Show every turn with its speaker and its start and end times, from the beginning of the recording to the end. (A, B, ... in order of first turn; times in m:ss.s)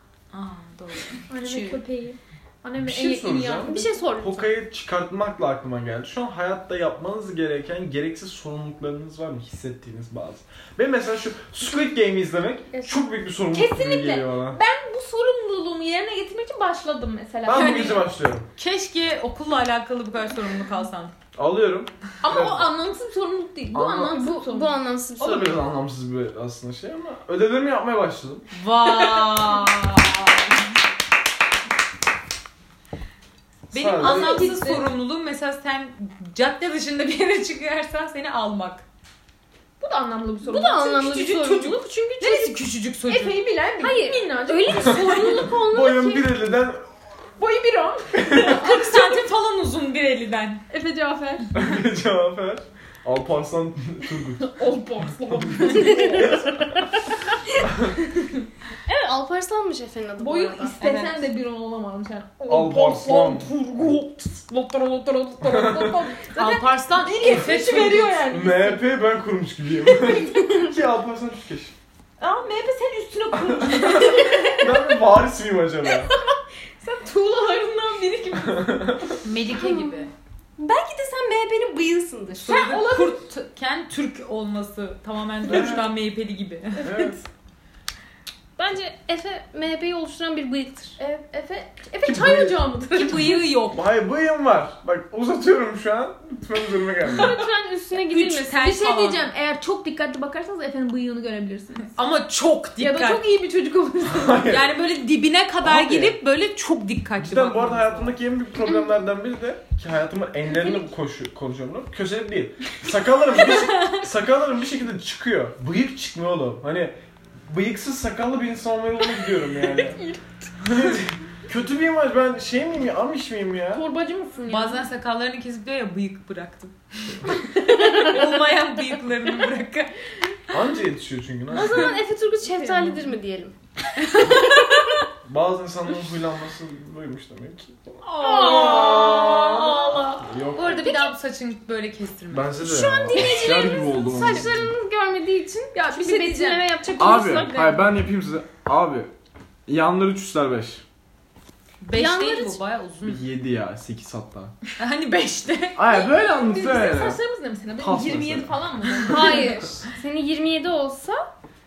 0:00.3-0:01.8 A
0:01.3-0:04.0 B
0:02.8-0:14.6 C
0:03.6-0:04.5 D
0:12.7-0:18.0 B
0:17.4-0:18.5 C
0:17.5-0:18.0 A
0:18.6-0:21.1 A
0:21.3-0:22.7 C
0:22.2-0:24.8 B
0:23.7-0:24.2 C
0:24.0-0:25.6 D
0:25.2-0:28.4 C
0:28.5-0:30.6 A
0:33.7-0:38.8 A
0:33.7-0:34.5 C
0:34.0-0:34.9 B
0:39.8-0:45.5 B
0:40.4-0:42.1 D
0:42.2-0:43.4 A
0:43.8-0:46.3 D
0:45.5-0:46.8 C
0:47.4-0:49.2 B
0:48.2-0:48.6 C
0:48.4-0:50.6 A
0:50.7-0:51.5 B
0:51.5-0:54.5 C
0:54.4-0:56.4 B
0:55.4-0:56.6 C
0:55.6-0:57.1 D
0:57.9-0:58.4 B
0:58.8-1:00.8 D
1:00.2-1:08.8 B
1:00.8-1:01.2 A
1:02.5-1:03.5 C
1:05.4-1:06.1 C
1:06.4-1:08.3 A
1:08.3-1:11.8 C
1:09.8-1:10.4 B
1:12.2-1:14.9 B
1:13.4-1:16.1 C
1:15.9-1:19.1 B
1:18.5-1:19.0 C
1:19.2-1:20.1 A
1:19.6-1:20.0 D
1:20.6-1:22.6 D
1:22.4-1:26.9 A
1:22.4-1:23.2 B
1:25.4-1:25.9 C
1:26.8-1:27.2 C
1:28.6-1:31.0 D
1:31.0-1:33.5 B
1:32.0-1:32.7 C
1:32.9-1:33.8 A
1:33.6-1:37.4 C
1:37.1-1:38.6 D
1:38.1-1:39.3 A
1:38.3-1:42.0 B
1:41.9-1:43.3 A
1:42.8-1:44.5 B
1:44.0-1:44.8 C
1:44.4-1:48.2 A
1:45.6-1:46.2 C
1:47.2-2:00.0 C
1:59.3-2:00.2 B
2:00.6-2:03.8 C
2:03.7-2:04.8 B
2:04.5-2:09.9 A
2:10.5-2:11.9 C
2:11.5-2:15.0 D
2:12.4-2:13.1 B
2:15.2-2:20.9 C
2:18.0-2:20.0 B
2:18.2-2:20.2 D
2:20.5-2:22.6 A
2:22.3-2:24.7 C
2:22.6-2:27.8 D
2:23.2-2:23.5 B
2:25.7-2:27.0 B
2:27.0-2:29.1 C
2:29.7-2:30.8 C
2:31.8-2:33.2 A
2:31.9-2:32.6 D
2:33.0-2:34.5 C
2:34.8-2:35.8 A
2:35.8-2:37.2 C
2:35.9-2:39.6 B
2:37.8-2:38.6 C
2:39.0-2:41.3 D